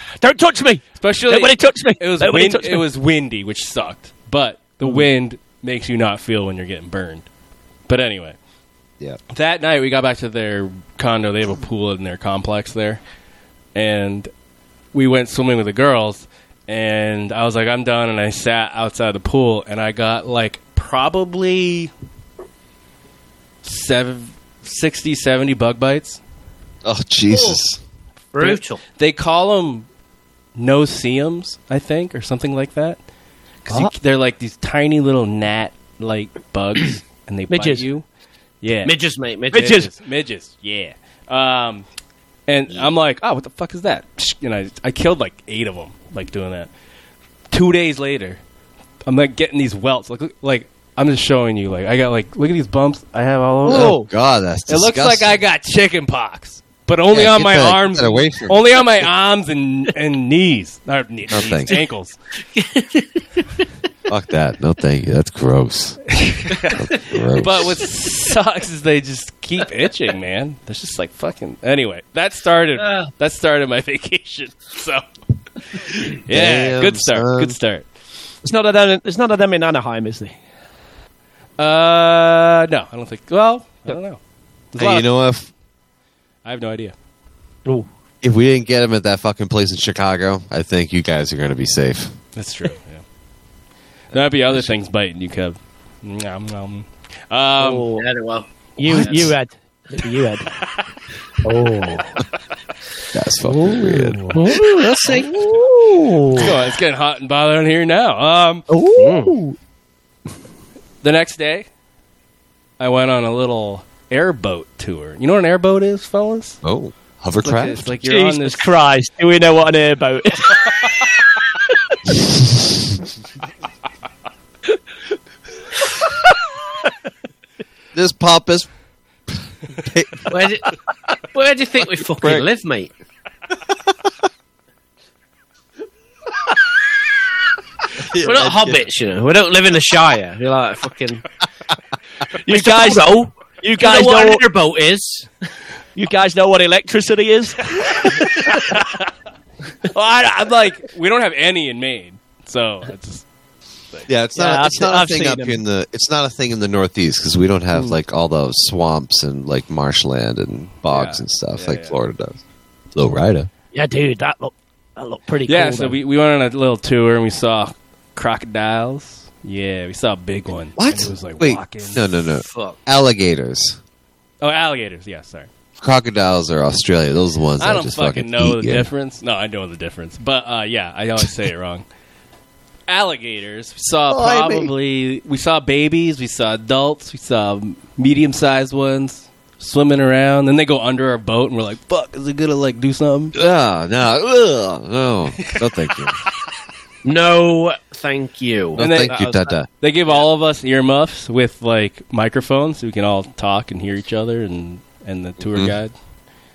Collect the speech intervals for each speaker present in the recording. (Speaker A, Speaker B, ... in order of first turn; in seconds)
Speaker A: 0.2-2.8, 37.5-37.9, 39.5-39.9, 53.7-54.1, 78.4-80.4, 97.6-98.0, 98.8-100.5, 101.5-102.1, 103.5-103.8, 104.3-104.8, 105.5-106.5, 108.7-109.6, 118.0-120.9, 142.4-144.4, 145.9-148.7, 154.3-155.6, 163.7-165.9
Speaker B: 1.0-7.3, 7.9-8.4, 9.3-13.0, 13.8-14.3, 14.9-21.9, 23.6-26.2, 28.4-29.9, 30.6-33.0, 33.6-38.0, 38.6-39.0, 39.5-41.9, 42.5-46.7, 47.5-48.4, 49.1-54.0, 54.7-62.2, 66.2-75.0, 75.6-77.9, 81.6-84.2, 84.7-85.1, 86.5-86.9, 92.4-93.0, 94.1-97.9, 103.8-104.4, 106.3-108.7, 111.0-111.7, 112.8-116.6, 117.4-118.7, 149.9-153.2, 160.9-162.0, 165.5-172.0, 174.4-175.5, 177.6-181.8, 182.9-193.3, 198.8-205.9
Speaker C: 26.8-27.8, 53.6-55.3, 57.1-58.8, 61.3-61.7, 64.1-66.1, 66.7-67.9, 76.3-77.6, 84.8-85.5, 88.2-92.2, 103.1-104.3, 116.6-117.9, 127.9-128.7, 129.3-130.3, 132.2-132.5, 137.9-138.8, 154.1-162.4, 162.9-163.5, 170.8-173.8, 175.8-178.9, 184.1-184.7, 193.3-196.2, 198.8-199.7
Speaker D: 27.3-27.6, 28.3-28.8, 38.9-39.7, 62.5-63.2, 72.8-73.1, 98.0-99.3, 104.4-105.5, 109.0-109.3, 130.3-132.9, 138.2-141.2, 142.4-145.3, 172.4-172.8, 197.0-199.5